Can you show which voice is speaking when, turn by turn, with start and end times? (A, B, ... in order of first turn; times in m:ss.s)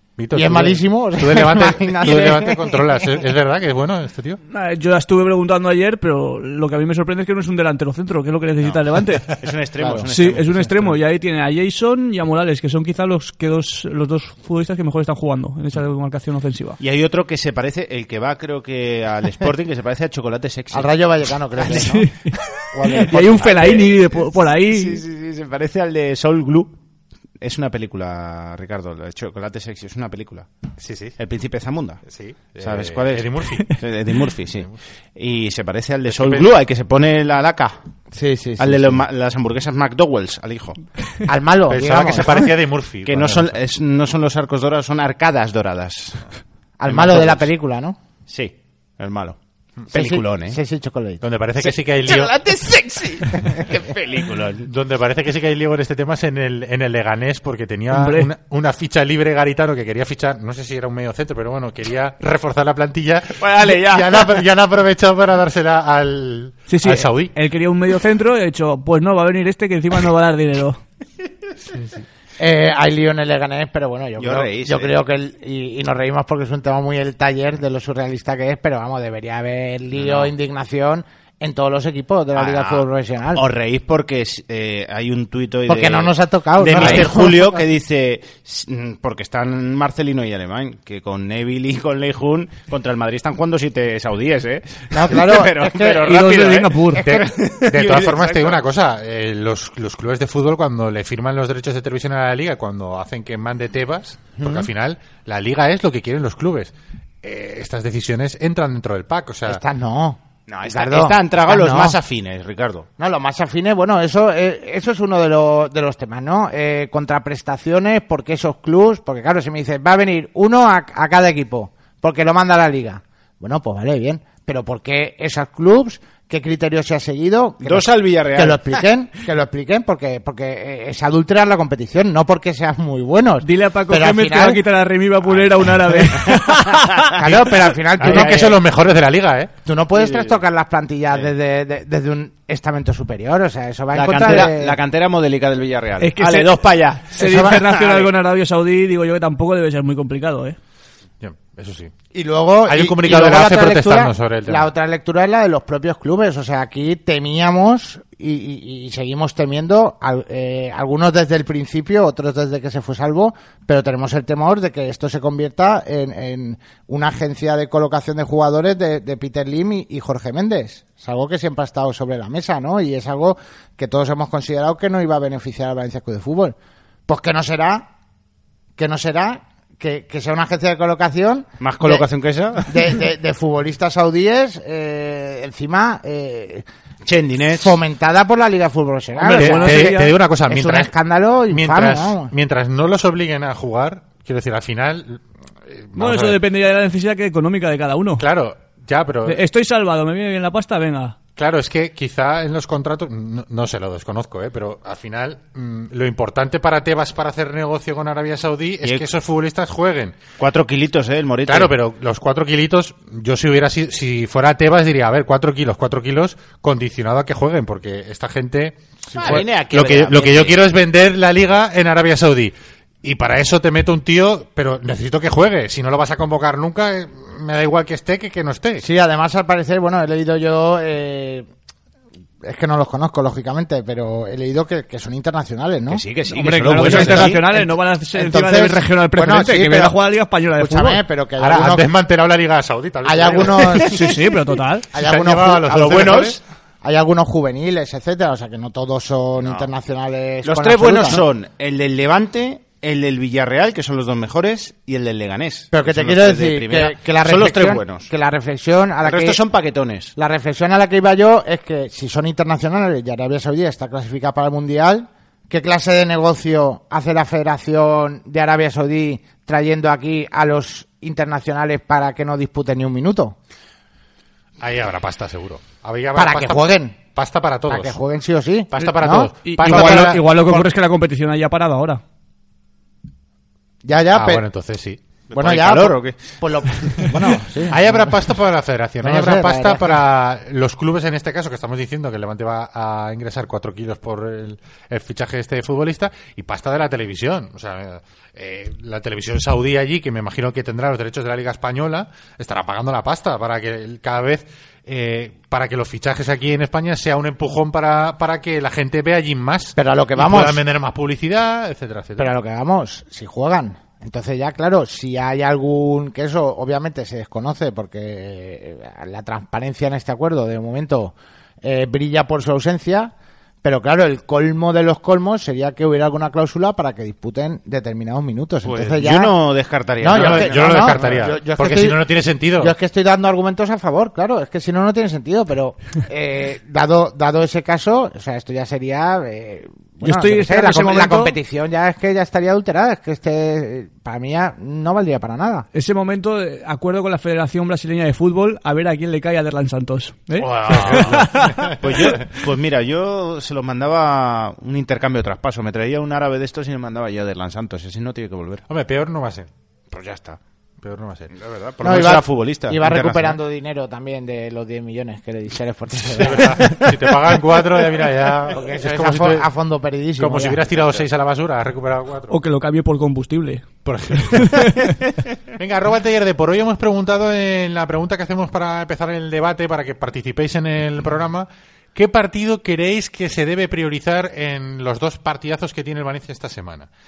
0:00.2-0:04.4 A
0:00.3-0:03.0 B
0:04.5-0:09.3 C
0:09.4-0:11.0 D
0:10.1-0:16.8 C
0:16.8-0:20.9 D
0:20.7-0:22.1 B
0:21.6-0:21.8 D
0:21.7-0:25.0 C
0:22.8-0:23.8 B
0:22.9-0:26.8 D
0:27.4-0:30.5 D
0:30.8-0:31.1 A
0:31.2-0:32.0 D
0:32.1-0:33.8 A
0:32.6-0:37.8 D
0:36.1-0:36.5 A
0:38.1-0:39.0 B
0:38.6-0:40.8 D
0:41.2-0:42.5 B
0:41.7-0:43.5 A
0:43.0-0:46.2 D
0:46.8-0:48.0 B
0:46.9-0:47.5 D
0:48.3-0:49.4 D
0:49.9-0:50.6 D
0:49.9-0:51.2 B
0:51.2-0:52.3 A
0:51.6-0:54.7 D
0:54.7-1:07.3 A
0:57.9-0:58.3 C
1:03.4-1:04.4 D
1:06.7-1:10.8 C
1:12.4-1:23.4 B
1:14.2-1:14.9 D
1:20.0-1:20.3 D
1:22.4-1:38.6 D
1:25.7-1:27.5 B
1:26.8-1:27.3 A
1:34.9-1:36.2 B
1:36.0-1:37.0 C
1:36.9-1:37.2 B
1:37.0-1:46.7 A
1:44.4-1:44.7 D
1:47.2-1:49.6 A
1:49.4-1:52.0 B
1:50.5-1:52.9 D
1:53.0-2:14.6 B
2:07.6-2:08.8 D
2:13.4-2:17.1 C
2:16.3-2:17.4 D
2:17.1-2:18.6 B
2:17.2-2:19.5 A
2:18.0-2:18.6 D
2:19.6-2:24.8 B
2:19.9-2:20.4 D
2:23.9-2:28.1 D
2:26.0-2:30.6 C
2:27.2-2:27.6 B
2:31.2-2:31.9 A
2:32.1-2:57.9 B
2:32.7-2:34.7 A
2:58.8-3:02.0 B
3:01.6-3:03.0 D
3:02.6-3:06.6 B
3:07.0-3:07.8 D
3:07.5-3:12.3 B
3:09.2-3:10.1 C
3:09.3-3:10.9 A
3:11.5-3:16.4 A
3:16.0-3:18.2 C
3:18.2-3:19.4 A
3:19.2-3:21.2 C
3:21.4-3:30.2 A
3:28.8-3:29.1 D
3:30.4-3:31.7 D
3:31.5-3:48.8 A
3:39.1-3:40.6 D
3:48.8-3:51.5 B
3:52.4-3:56.0 B
3:55.9-3:57.4 D
3:56.3-4:01.0 C
3:56.8-3:57.3 A
3:56.8-4:00.0 B
4:00.6-4:01.9 B
4:01.4-4:03.9 A
4:03.0-4:04.1 B
4:03.8-4:04.9 C
4:04.9-4:06.3 B
4:04.9-4:06.4 A
4:05.7-4:06.4 D
4:06.8-4:11.2 B
4:09.4-4:09.7 D
4:10.4-4:18.1 D
4:15.7-4:19.4 B
4:19.0-4:20.1 D
4:20.2-4:33.4 B
4:34.6-4:38.0 A
4:36.1-4:37.0 B
4:37.7-4:40.2 B
4:38.7-4:40.6 A
4:39.4-4:42.0 C
4:43.8-4:44.4 B
4:44.1-4:45.0 A
4:45.3-4:46.4 D
4:45.3-4:48.2 B
4:47.7-5:12.3 A
4:49.0-4:50.0 B
5:09.8-5:10.6 B
5:12.2-5:29.4 B
5:28.6-5:31.2 D
5:30.0-5:45.7 B
5:30.1-5:32.7 A
5:40.0-5:41.3 C
5:45.7-5:51.8 C
5:50.4-5:52.1 A
5:50.7-5:51.2 D
5:51.8-5:58.6 D
5:58.7-5:59.5 A
5:59.9-6:00.4 D
6:00.8-6:01.3 A
6:01.3-6:03.4 D
6:01.8-6:06.9 B
6:06.2-6:09.4 A
6:08.5-6:10.7 B
6:10.2-6:12.4 A
6:12.3-6:14.9 C
6:13.8-6:14.8 A
6:15.6-6:26.9 A